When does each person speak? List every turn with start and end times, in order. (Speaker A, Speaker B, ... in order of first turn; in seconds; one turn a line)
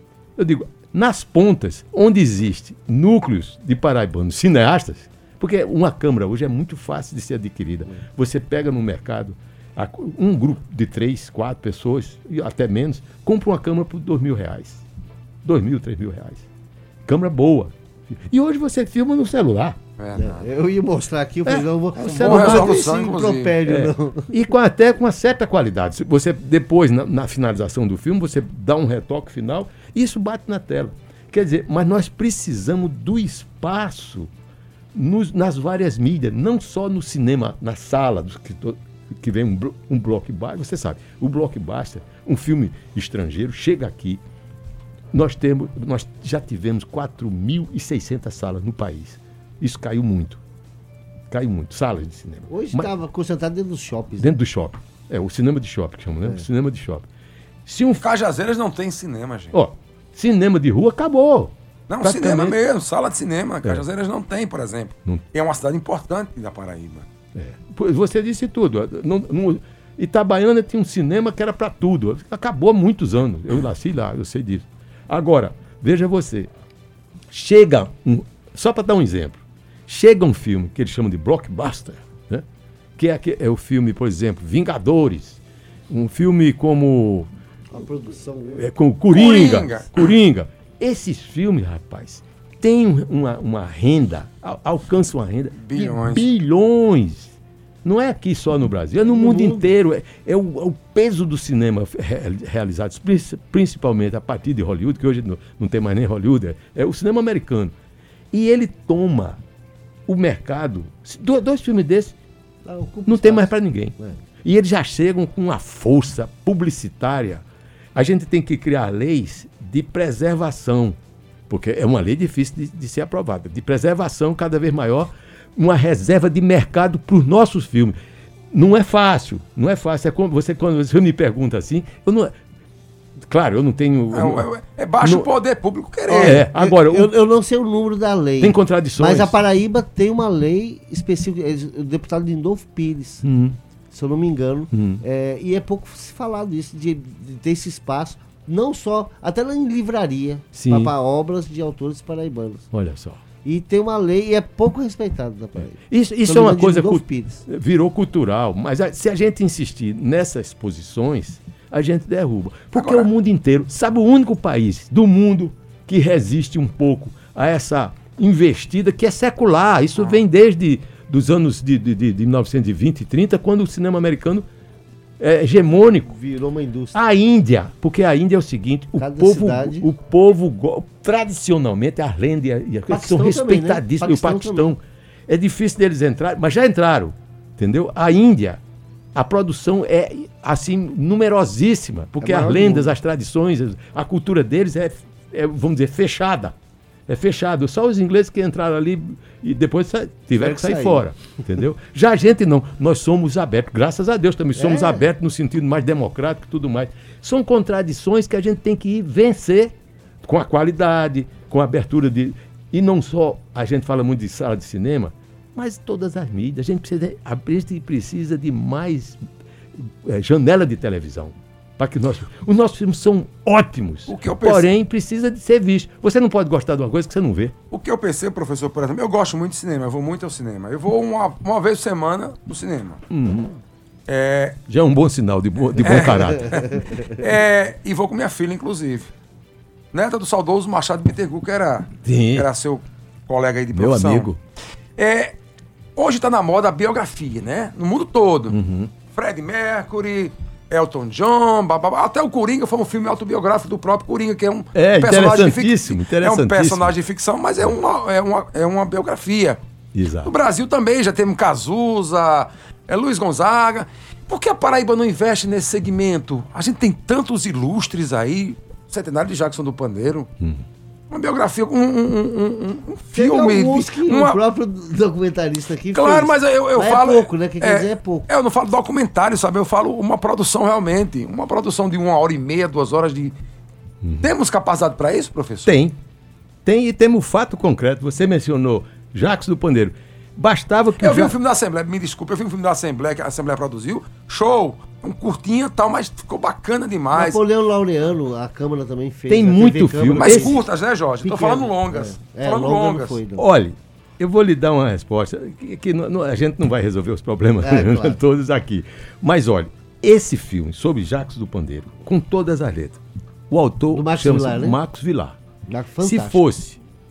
Speaker A: 0.3-14.8
Speaker A: 15.4-16.4
Speaker A: 17.1-19.8
Speaker B: 20.0-20.4
Speaker C: 20.1-24.3
Speaker A: 21.4-22.9
Speaker B: 22.0-23.6
Speaker A: 23.6-34.3
Speaker A: 34.9-44.2
Speaker A: 45.1-50.4
Speaker A: 51.3-52.9
Speaker C: 52.5-54.3
Speaker A: 54.2-57.1
Speaker A: 57.6-58.0
Speaker B: 58.0-59.5
Speaker A: 59.5-62.6
Speaker B: 61.9-67.0
Speaker A: 67.3-76.5
Speaker A: 77.3-82.5
Speaker A: 83.0-87.3
Speaker C: 87.7-88.7
Speaker A: 88.5-107.7
Speaker B: 89.1-90.1
Speaker B: 95.6-96.3
Speaker C: 99.1-99.7
Speaker A: 108.3-109.4
Speaker A: 110.1-112.1
Speaker C: 112.6-114.2
Speaker A: 113.1-117.4
Speaker A: 117.9-121.0
Speaker A: 121.5-127.9
Speaker A: 128.5-132.3
Speaker A: 133.2-134.5
Speaker B: 134.1-136.4
Speaker A: 135.0-135.3
Speaker C: 136.1-143.2
Speaker A: 136.1-137.1
Speaker A: 138.4-139.3
Speaker A: 143.2-143.6
Speaker C: 143.9-152.7
Speaker A: 144.7-145.0
Speaker A: 150.5-150.9
Speaker A: 152.7-153.2
Speaker C: 153.4-157.4
Speaker A: 155.7-174.4
Speaker B: 162.7-163.1
Speaker A: 175.2-176.1
Speaker C: 176.1-177.0
Speaker A: 176.9-188.6
Speaker C: 179.0-179.9
Speaker C: 182.9-184.7
Speaker A: 189.1-196.5
Speaker C: 192.2-192.9
Speaker A: 197.1-219.2
Speaker C: 200.3-201.1
Speaker C: 204.6-205.1
Speaker A: 219.7-227.5
Speaker B: 224.1-224.7
Speaker B: 227.7-233.0
Speaker A: 233.1-233.6
Speaker B: 234.1-234.6
Speaker A: 234.7-236.7
Speaker B: 235.8-239.1
Speaker C: 236.5-237.0
Speaker B: 239.9-244.3
Speaker A: 242.0-242.5
Speaker A: 243.7-244.4
Speaker B: 245.0-245.3
Speaker B: 245.9-248.6
Speaker A: 248.5-248.9
Speaker B: 249.1-259.6
Speaker A: 254.7-257.0
Speaker A: 259.9-260.3
Speaker B: 260.2-270.3
Speaker B: 271.1-274.4
Speaker C: 273.1-278.3
Speaker B: 275.9-283.3
Speaker A: 284.0-284.3
Speaker B: 284.2-285.7
Speaker A: 285.6-286.0
Speaker A: 286.6-291.3
Speaker B: 291.0-297.4
Speaker C: 297.1-300.6
Speaker A: 299.3-300.6
Speaker B: 300.1-303.2
Speaker C: 301.2-303.4
Speaker A: 303.4-315.4
Speaker C: 307.6-308.2
Speaker C: 313.9-314.8
Speaker C: 315.7-316.4
Speaker A: 316.0-316.8